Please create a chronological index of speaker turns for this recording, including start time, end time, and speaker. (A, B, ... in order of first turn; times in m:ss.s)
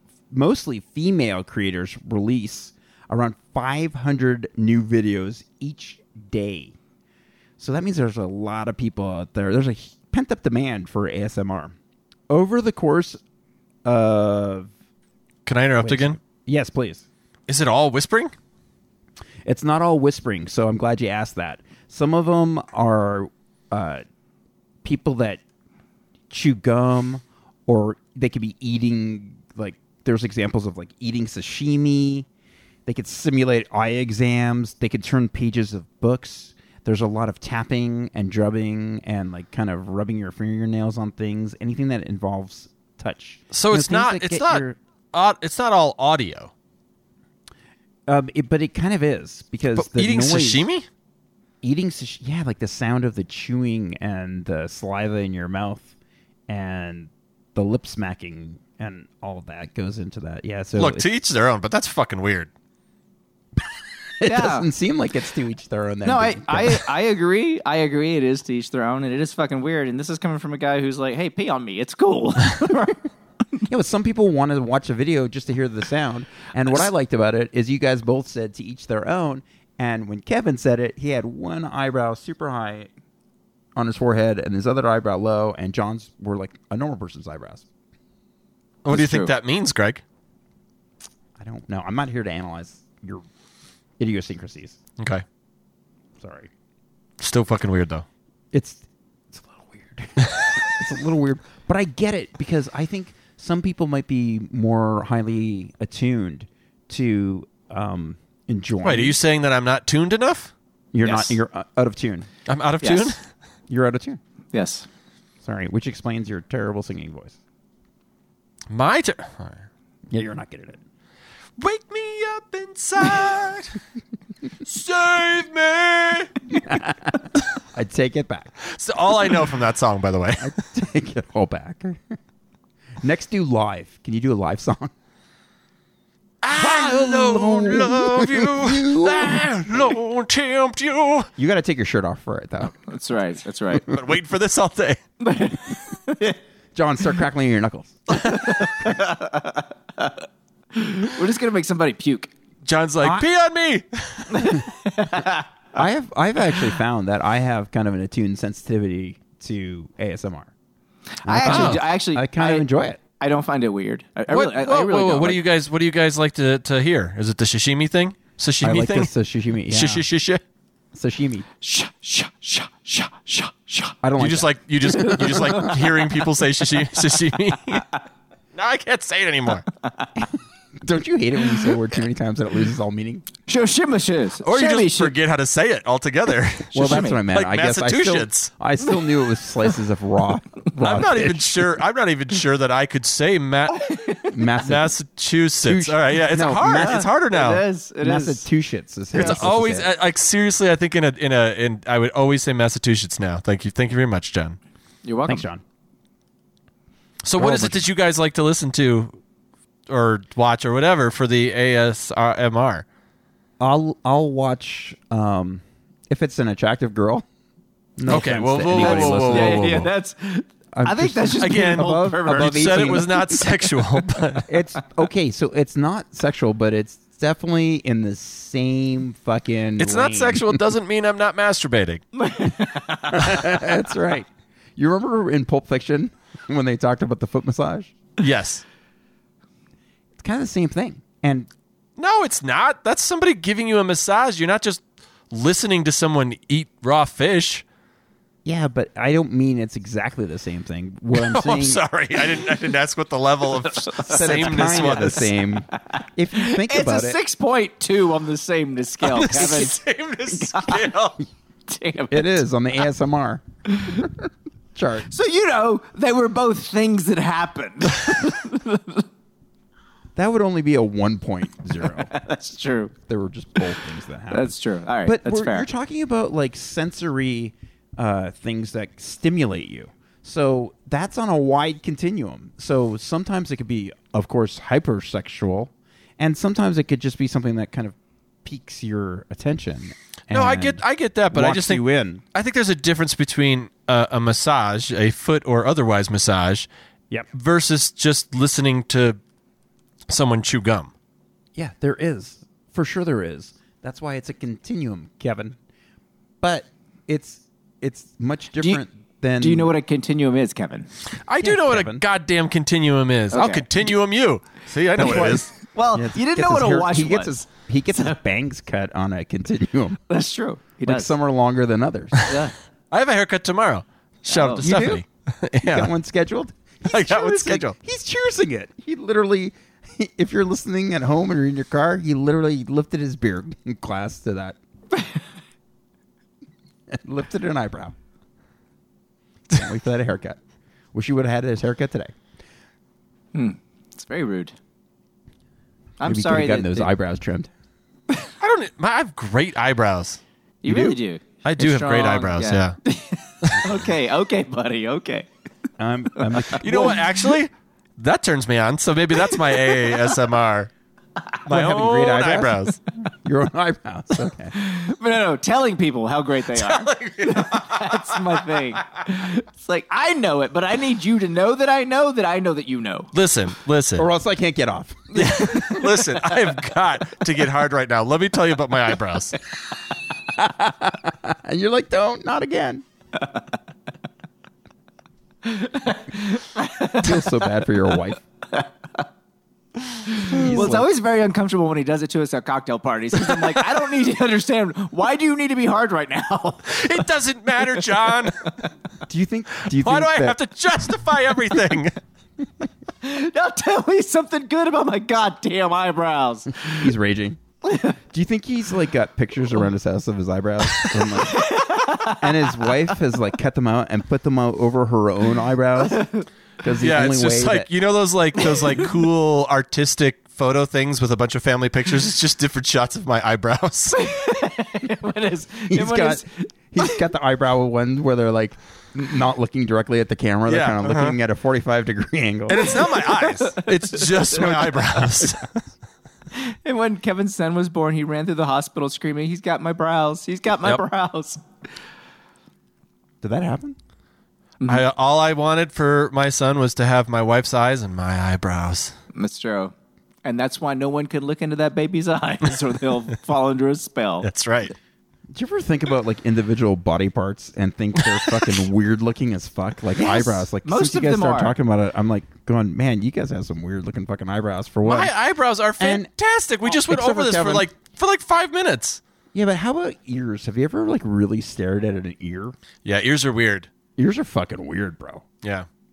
0:00.3-0:06.8 A
0:07.6-0:11.7 A
0:12.3-0:13.2 A
0:13.8-0:14.7 A
0:15.4-0:16.2 B
0:15.8-0:17.0 A
0:17.5-0:18.3 B
0:19.4-0:24.0 A
0:24.8-0:25.4 A
0:26.3-0:32.3 A
0:32.8-0:44.8 A
0:43.5-0:46.5 B
0:48.1-0:50.7 A
0:49.7-0:50.8 B
0:51.6-0:55.9 A
0:56.5-1:01.1 A
1:00.8-1:02.5 B
1:04.2-1:06.9 A
1:04.2-1:04.7 C
1:06.0-1:13.0 C
1:13.7-1:22.9 A
1:23.8-1:27.6 A
1:28.8-1:30.0 B
1:28.9-1:29.3 C
1:31.4-1:33.2 A
1:34.0-1:34.8 A
1:35.0-1:35.2 B
1:36.2-1:36.5 A
1:37.2-1:38.0 B
1:38.5-1:49.2 A
1:48.8-1:50.5 B
1:50.9-1:52.3 A
1:51.0-1:51.3 C
1:52.4-1:53.2 B
1:52.8-1:53.2 C
1:53.7-1:54.2 A
1:54.5-1:54.9 C
1:55.4-1:57.4 A
1:58.7-1:59.6 B
2:00.1-2:00.8 A
2:01.6-2:03.8 B
2:04.6-2:06.3 B
2:06.6-2:08.6 A
2:08.6-2:10.6 B
2:10.4-2:12.2 A
2:13.0-2:14.9 A
2:16.4-2:21.3 B
2:16.6-2:20.0 A
2:21.4-2:22.9 A
2:22.9-2:23.9 C
2:23.8-2:25.0 B
2:25.2-2:26.4 C
2:26.7-2:28.4 A
2:28.2-2:28.5 B
2:28.3-2:30.2 C
2:30.7-2:32.3 C
2:32.6-2:34.6 B
2:33.0-2:33.2 A
2:34.3-2:35.4 C
2:35.7-2:40.5 A
2:41.2-2:42.6 C
2:41.2-2:43.0 A
2:41.4-2:41.9 B
2:43.2-2:45.4 C
2:44.3-2:49.1 B
2:48.6-2:50.0 A
2:49.7-2:50.4 B
2:50.9-2:51.4 A
2:51.6-2:54.0 C
2:54.0-2:55.7 A
2:54.2-2:57.9 B
2:55.2-2:55.9 C
2:58.5-2:59.6 B
3:00.8-3:03.2 A
3:03.5-3:05.1 C
3:04.4-3:08.5 B
3:06.7-3:07.2 C
3:06.7-3:11.7 A
3:10.8-3:14.0 B
3:13.7-3:14.3 C
3:14.3-3:14.9 A
3:14.6-3:17.6 B
3:15.6-3:17.0 A
3:16.6-3:18.4 C
3:18.0-3:19.9 A
3:19.1-3:19.5 C
3:19.1-3:24.6 B
3:25.0-3:25.4 C
3:25.3-3:25.6 A
3:27.2-3:29.2 B
3:27.4-3:27.8 A
3:29.9-3:32.8 B
3:33.6-3:37.2 A
3:38.0-3:39.9 A
3:38.0-3:39.9 B
3:38.7-3:43.0 C
3:40.7-3:43.5 A
3:41.4-3:44.5 B
3:44.5-3:50.6 A
3:49.8-3:52.0 B
3:52.2-3:53.8 C
3:53.1-3:57.9 A
3:58.2-3:58.6 B
4:00.2-4:01.5 A
4:02.0-4:07.6 B
4:08.4-4:11.8 A
4:11.1-4:15.3 B
4:13.8-4:19.8 C
4:14.1-4:17.2 A
4:19.0-4:21.2 B
4:20.3-4:20.8 C
4:21.7-4:22.4 C
4:22.1-4:25.1 A
4:23.7-4:24.1 C
4:25.1-4:29.0 C
4:30.2-4:32.1 A
4:31.8-4:32.9 C
4:33.0-4:34.5 A
4:34.3-4:35.7 C
4:35.0-4:52.2 A
4:50.3-4:51.8 B
4:52.3-4:56.7 B
4:57.3-4:59.2 B
5:00.1-5:00.9 B
5:01.6-5:05.6 A
5:06.4-5:09.7 A
5:09.4-5:10.9 C
5:11.2-5:15.5 B
5:11.4-5:12.0 A
5:13.3-5:13.7 C
5:15.0-5:20.0 A
5:15.0-5:17.4 C
5:20.1-5:21.1 C
5:20.8-5:22.3 A
5:22.3-5:22.5 C
5:22.9-5:25.9 B
5:24.3-5:24.9 C
5:24.6-5:25.0 A
5:25.6-5:34.6 A
5:26.8-5:27.7 B
5:36.9-5:37.9 A
5:39.5-5:40.4 A
5:40.9-5:42.1 A
5:43.3-5:44.5 C
5:46.0-5:46.9 C
5:46.0-5:47.5 A
5:48.4-5:50.2 B
5:50.6-5:55.3 C
5:50.6-5:51.0 A
5:51.4-5:52.8 B
5:53.4-5:53.8 B
5:55.8-5:57.1 A
5:56.2-5:56.9 C
5:56.5-6:00.7 B
5:59.3-5:59.8 C
6:01.4-6:02.8 B
6:01.5-6:04.5 A
6:04.5-6:13.1 C
6:06.5-6:08.8 B
6:13.1-6:14.1 B
6:14.0-6:16.1 A
6:15.1-6:19.4 B
6:20.2-6:22.8 A
6:25.4-6:27.3 C
6:26.9-6:28.2 A
6:28.5-6:29.0 C
6:30.0-6:37.0 C
6:30.3-6:30.9 A
6:36.7-6:38.5 B
6:39.1-6:40.4 A
6:39.7-6:42.0 B
6:43.0-6:46.9 C
6:46.6-6:47.4 A
6:47.6-6:48.0 C
6:48.1-6:56.1 A
6:51.3-6:52.6 C
6:56.0-6:56.2 C
6:56.6-6:57.7 A
6:56.8-7:04.0 B
7:03.9-7:07.0 C
7:05.7-7:12.8 A
7:10.5-7:11.2 B
7:12.5-7:15.6 B
7:12.8-7:14.6 C
7:14.5-7:15.4 A
7:16.3-7:21.4 C
7:23.2-7:23.8 A
7:24.7-7:28.9 B
7:29.1-7:34.3 C
7:34.2-7:34.7 B
7:35.3-7:45.1 A
7:40.0-7:41.5 C
7:44.8-7:49.0 B
7:45.8-7:46.1 A
7:46.6-7:47.7 A
7:49.3-7:52.5 A
7:52.8-7:53.7 B
7:54.0-7:55.2 A